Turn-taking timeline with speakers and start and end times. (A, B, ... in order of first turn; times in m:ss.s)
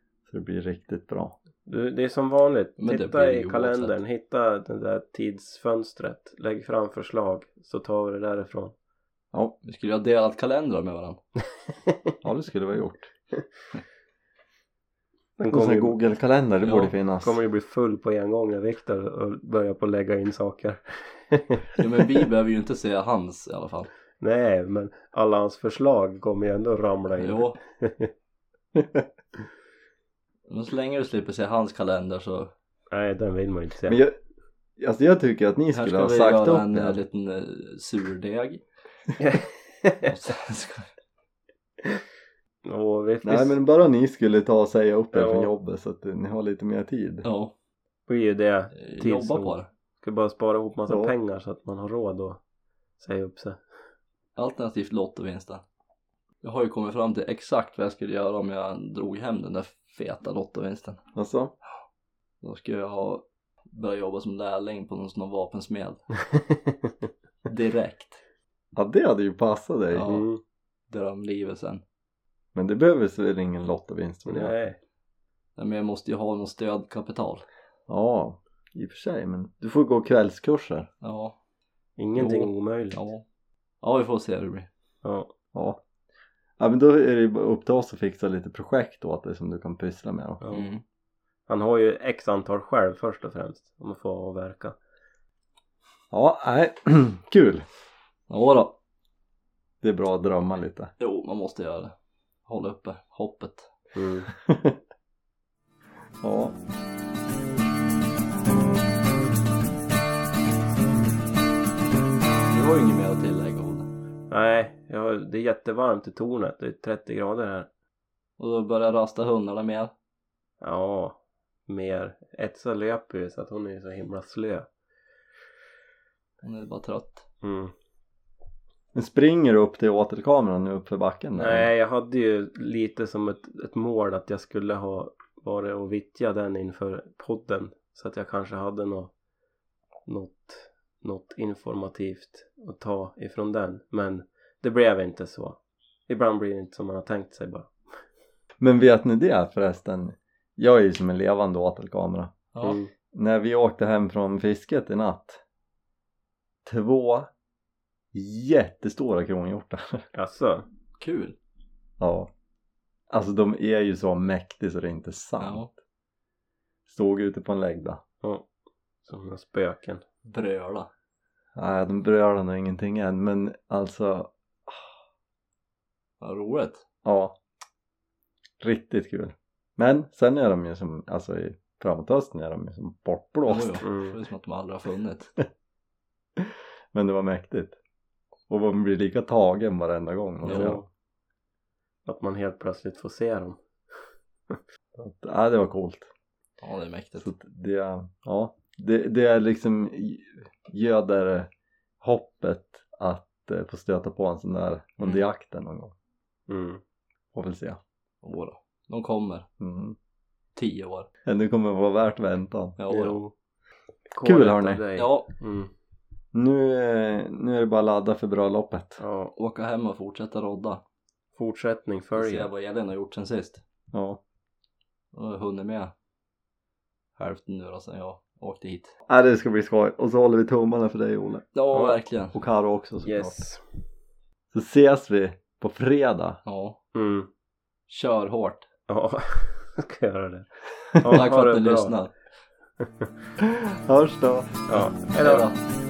0:00.3-0:01.4 A
0:01.7-0:08.7 B
0:02.8-0:04.0 C
0:09.6-0:11.2 C
0:12.2-0:13.1 A
0:15.4-0:16.0 B
0:15.5-0:17.4 A
0:16.6-0:16.9 C
0:17.2-0:21.7 B
0:21.8-0:23.9 C
0:24.2-0:28.1 B
0:27.2-0:27.6 C
0:28.8-0:29.0 A
0:30.5-0:32.5 C
0:32.9-0:34.0 B
0:33.9-0:34.2 A
0:34.8-0:37.0 A
0:35.7-0:38.6 C
0:39.2-0:40.1 B
0:40.0-0:40.9 C
0:42.6-0:43.6 B
0:43.2-0:47.2 A
0:45.1-0:45.5 B
0:47.2-0:47.5 C
0:48.1-0:52.4 B
0:48.7-0:49.7 C
0:50.9-0:51.2 A
0:53.0-0:53.6 B
0:54.4-0:55.6 C
0:56.4-1:01.0 C
1:01.2-1:01.5 A
1:02.4-1:06.0 C
1:07.5-1:08.2 C
1:08.8-1:10.1 A
1:09.9-1:10.3 C
1:10.1-1:10.4 B
1:10.9-1:11.8 C
1:12.6-1:14.5 A
1:14.3-1:14.8 B
1:15.6-1:17.4 C
1:17.9-1:20.9 A
1:21.0-1:21.4 C
1:22.0-1:23.1 B
1:22.2-1:23.2 C
1:23.8-1:24.7 C
1:25.0-1:25.3 B
1:25.5-1:25.8 A
1:26.6-1:30.4 A
1:30.4-1:30.7 B
1:30.5-1:30.8 C
1:31.5-1:34.8 B
1:36.1-1:37.6 A
1:38.3-1:38.8 C
1:39.8-1:40.9 A
1:41.0-1:41.9 C
1:42.5-1:43.7 C
1:44.0-1:44.3 B
1:44.4-1:44.8 A
1:46.2-1:46.6 A
1:52.5-1:53.9 C
1:54.3-1:57.7 B
1:58.4-1:59.9 C
2:00.6-2:04.7 B
2:06.4-2:07.3 C
2:07.4-2:07.7 B
2:08.9-2:11.7 A
2:11.4-2:19.1 B
2:20.1-2:27.7 B
2:28.6-2:32.3 A
2:32.5-2:32.8 C
2:32.6-2:32.9 B
2:33.1-2:35.4 A
2:36.6-2:37.3 A
2:38.1-2:40.0 A
2:40.2-2:40.7 B
2:41.0-2:41.4 C
2:42.0-2:42.3 A
2:43.1-2:45.6 A
2:45.4-2:45.7 C
2:46.9-2:48.0 A
2:49.0-2:50.0 B
2:50.2-2:50.9 C
2:51.6-2:54.9 A
2:56.2-2:56.8 C
2:57.0-2:57.4 A
2:58.6-3:03.8 A
3:03.5-3:05.4 C
3:03.8-3:04.2 B
3:06.4-3:07.8 A
3:08.5-3:10.8 A
3:10.4-3:10.9 B
3:10.5-3:10.8 C
3:12.1-3:13.6 B
3:15.0-3:16.1 A
3:16.6-3:17.3 C
3:17.2-3:21.5 A
3:22.0-3:25.9 A
3:25.0-3:25.2 C
3:26.5-3:26.8 B
3:27.3-3:27.8 A
3:28.2-3:29.5 C
3:29.6-3:30.0 A
3:30.6-3:31.1 C
3:31.2-3:32.8 A
3:32.8-3:33.2 C
3:32.9-3:33.3 B
3:34.1-3:35.7 B
3:34.2-3:34.8 A
3:35.0-3:35.3 C
3:36.3-3:39.0 A
3:39.0-3:39.3 B
3:39.4-3:40.8 C
3:41.4-3:42.5 B
3:42.2-3:43.6 C
3:43.9-3:44.2 A
3:45.1-3:45.9 C
3:47.2-3:48.9 C
3:49.1-3:51.5 A
3:51.6-3:52.4 C
3:52.3-3:53.4 A
3:53.0-3:53.6 B
3:54.5-3:56.4 A
3:56.4-3:56.8 C
3:57.0-3:57.3 B
3:57.9-3:58.7 C
3:58.9-4:02.0 B
4:01.1-4:02.1 C
4:03.4-4:04.7 A
4:04.7-4:05.5 B
4:05.2-4:05.6 C